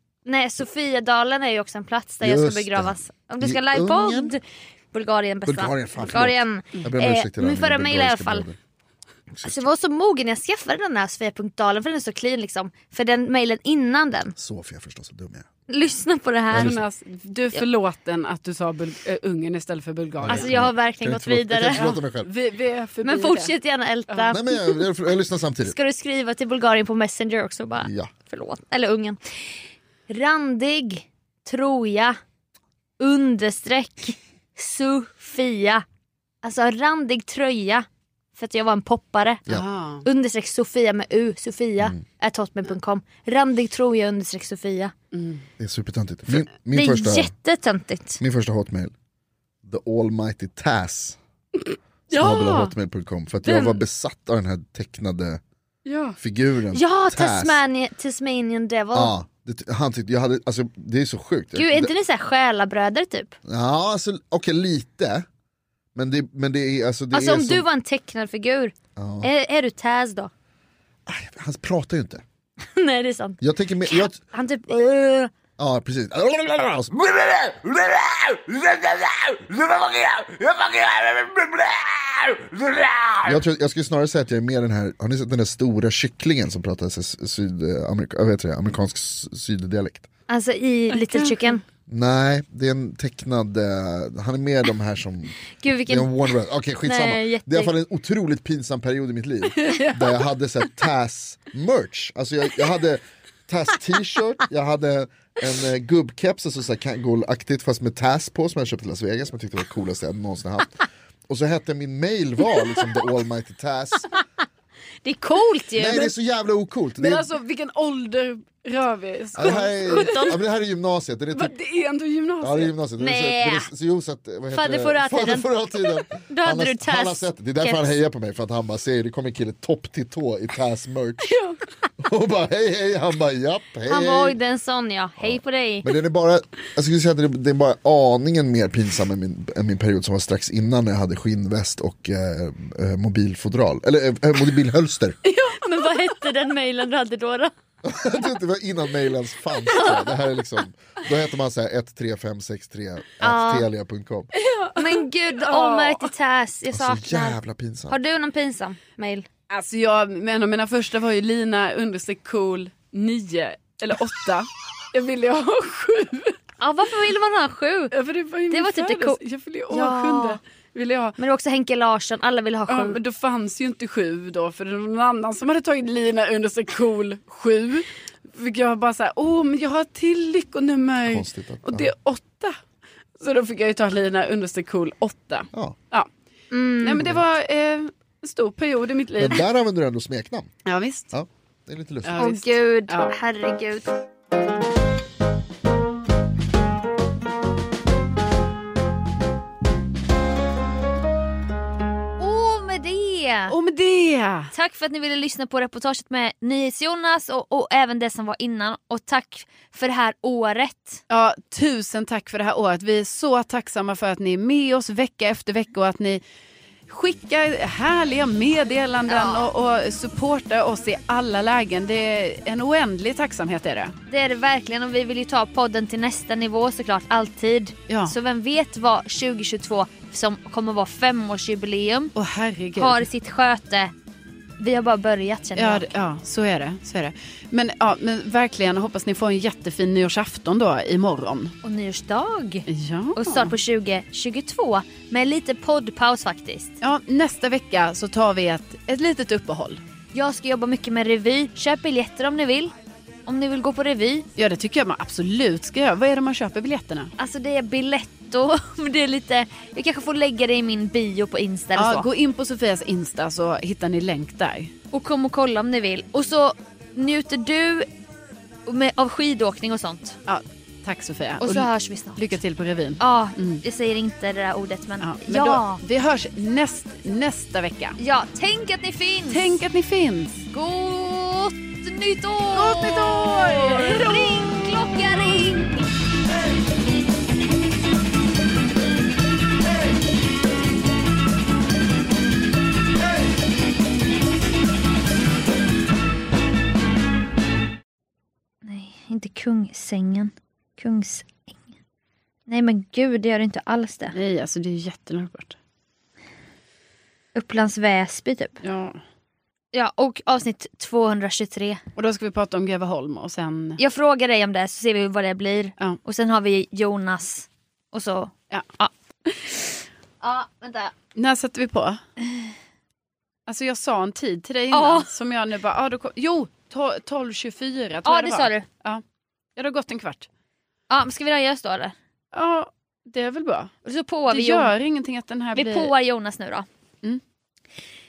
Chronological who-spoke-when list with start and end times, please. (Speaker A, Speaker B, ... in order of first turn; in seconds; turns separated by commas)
Speaker A: 0.2-4.4, Speaker B: 2.2-4.3, Speaker A: 4.9-8.4, Speaker B: 5.5-8.6, Speaker A: 9.4-14.3, Speaker B: 9.4-9.7, Speaker B: 14.3-15.5, Speaker A: 15.7-16.8, Speaker B: 16.5-16.8, Speaker C: 16.5-20.5, Speaker B: 20.2-22.3, Speaker A: 20.3-21.9, Speaker C: 21.7-23.5, Speaker A: 23.0-24.8, Speaker B: 24.3-25.8, Speaker A: 25.6-29.2, Speaker B: 27.8-28.1, Speaker A: 30.1-32.2, Speaker A: 33.0-35.8, Speaker A: 36.4-39.4, Speaker C: 39.5-40.0, Speaker A: 40.0-44.9, Speaker C: 45.1-45.5, Speaker B: 45.6-47.3, Speaker A: 46.7-48.2, Speaker B: 48.2-48.9, Speaker B: 49.6-51.2, Speaker C: 51.6-52.7, Speaker B: 52.1-55.4, Speaker C: 55.9-56.2, Speaker B: 56.2-57.6, Speaker A: 56.7-59.1, Speaker B: 58.9-61.9, Speaker A: 61.5-63.4, Speaker B: 63.4-65.2, Speaker B: 65.9-67.6, Speaker A: 67.1-70.3, Speaker B: 69.0-69.3, Speaker B: 71.0-72.2, Speaker A: 72.7-75.3, Speaker B: 73.4-74.2, Speaker B: 75.6-90.1, Speaker A: 90.3-91.6, Speaker C: 90.9-91.3, Speaker B: 91.9-114.1, Speaker A: 95.6-96.1, Speaker A: 96.8-97.7, Speaker C: 99.6-100.2, Speaker A: 115.0-116.0, Speaker B: 115.8-117.3, Speaker C: 117.0-120.2, Speaker B: 119.3-121.5, Speaker A: 119.4-120.4, Speaker C: 121.3-122.7, Speaker B: 122.4-131.3, Speaker A: 123.0-123.7, Speaker A: 124.5-127.9, Speaker C: 131.2-131.6, Speaker B: 132.0-134.4, Speaker A: 133.9-135.8, Speaker B: 135.2-145.2, Speaker C: 145.2-145.6, Speaker A: 145.6-147.5, Speaker B: 147.8-154.3, Speaker A: 153.2-153.7, Speaker C: 154.3-156.1, Speaker A: 154.8-159.3, Speaker B: 156.7-157.9, Speaker C: 159.5-166.4, Speaker A: 166.6-167.9, Speaker C: 167.9-171.2, Speaker A: 168.5-170.4, Speaker A: 171.2-173.0, Speaker C: 172.7-182.6, Speaker B: 181.1-181.9, Speaker C: 183.2-186.1, Speaker A: 186.5-187.1, Speaker C: 186.8-189.4, Speaker B: 189.2-190.5, Speaker C: 190.7-191.1, Speaker B: 191.1-192.2, Speaker C: 192.0-193.1, Speaker A: 192.2-193.9, Speaker A: 202.2-203.6, Speaker C: 203.5-204.5, Speaker A: 204.5-211.0, Speaker C: 211.1-216.2, Speaker C: 216.9-223.9, Speaker A: 219.1-219.5, Speaker A: 224.1-232.1, Speaker C: 227.9-228.1, Speaker C: 232.2-233.1, Speaker A: 232.8-233.9, Speaker A: 234.6-235.9, Speaker C: 235.6-241.5, Speaker A: 241.6-246.8, Speaker C: 242.7-243.5, Speaker C: 246.8-249.8, Speaker A: 250.1-252.7, Speaker A: 253.2-254.3, Speaker C: 254.4-257.1, Speaker A: 257.2-262.1, Speaker C: 261.8-264.7, Speaker A: 264.9-267.9, Speaker A: 268.6-270.2, Speaker C: 270.3-273.6, Speaker A: 271.4-272.2, Speaker A: 273.0-275.8, Speaker C: 275.0-278.0, Speaker A: 278.0-279.6, Speaker C: 279.3-280.4, Speaker A: 280.5-285.9, Speaker C: 282.5-284.3, Speaker A: 298.6-301.5, Speaker A: 302.5-304.2, Speaker C: 304.1-305.6, Speaker A: 307.3-308.6, Speaker C: 308.6-309.0, Speaker A: 309.7-311.8, Speaker C: 311.9-313.8, Speaker A: 313.8-318.9, Speaker A: 320.2-320.9, Speaker C: 321.1-322.0, Speaker C: 323.5-329.0, Speaker A: 324.7-325.1, Speaker A: 328.0-328.6, Speaker C: 329.6-330.3, Speaker A: 330.9-331.9, Speaker C: 332.3-333.7, Speaker A: 333.8-334.7, Speaker C: 334.3-335.9, Speaker A: 335.5-336.6